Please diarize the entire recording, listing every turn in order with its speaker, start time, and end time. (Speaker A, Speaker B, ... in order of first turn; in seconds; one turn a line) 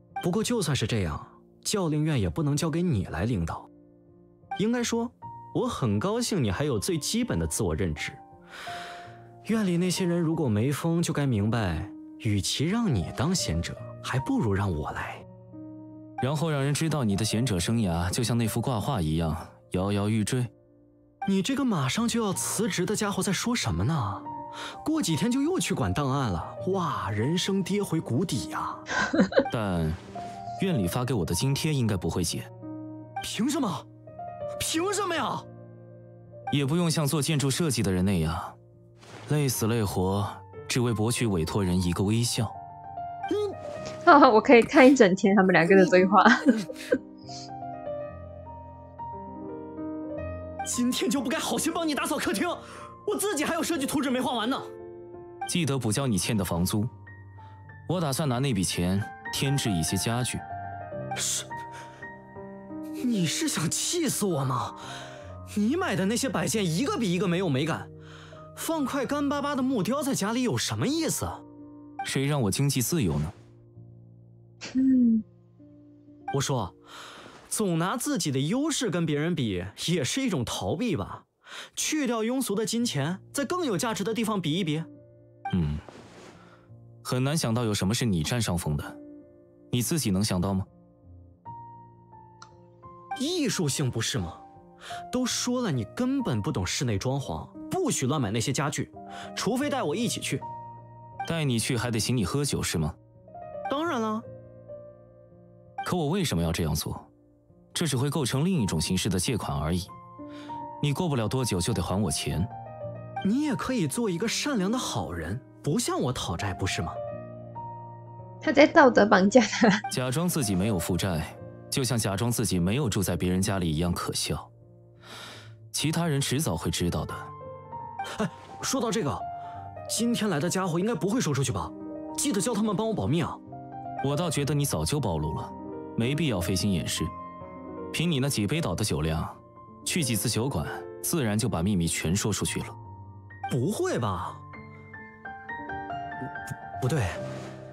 Speaker A: 0.2-3.7
Speaker A: 4.6-8.2
Speaker A: 9.5-15.2
Speaker B: 16.2-20.5
Speaker A: 21.3-24.3
Speaker A: 24.8-28.8
Speaker B: 29.5-30.0
Speaker B: 30.6-32.5
Speaker A: 33.2-33.9
Speaker A: 34.6-35.5
Speaker B: 36.5-38.6
Speaker B: 39.3-42.5
Speaker A: 43.3-43.6
Speaker C: 44.1-46.7
Speaker A: 50.6-54.7
Speaker B: 55.5-56.9
Speaker B: 57.9-60.4
Speaker A: 61.2-61.5
Speaker A: 63.0-64.8
Speaker A: 65.5-67.9
Speaker A: 68.5-71.4
Speaker B: 72.0-73.3
Speaker C: 74.7-75.2
Speaker A: 76.3-76.8
Speaker A: 77.5-84.9
Speaker B: 85.5-85.8
Speaker B: 87.0-89.0
Speaker B: 89.7-90.7
Speaker A: 93.2-94.4
Speaker A: 95.1-100.4
Speaker B: 101.3-103.0
Speaker A: 103.7-104.2
Speaker B: 105.8-107.1
Speaker B: 107.7-109.9
Speaker B: 110.8-112.5
Speaker A: 113.2-117.0
Speaker C: 118.4-119.8
Speaker B: 119.9-124.5
Speaker B: 125.7-127.3
Speaker A: 128.2-129.2
Speaker A: 129.9-133.4
Speaker B: 134.0-137.1
Speaker B: 137.9-142.8
Speaker A: 143.5-144.4
Speaker A: 146.8-147.2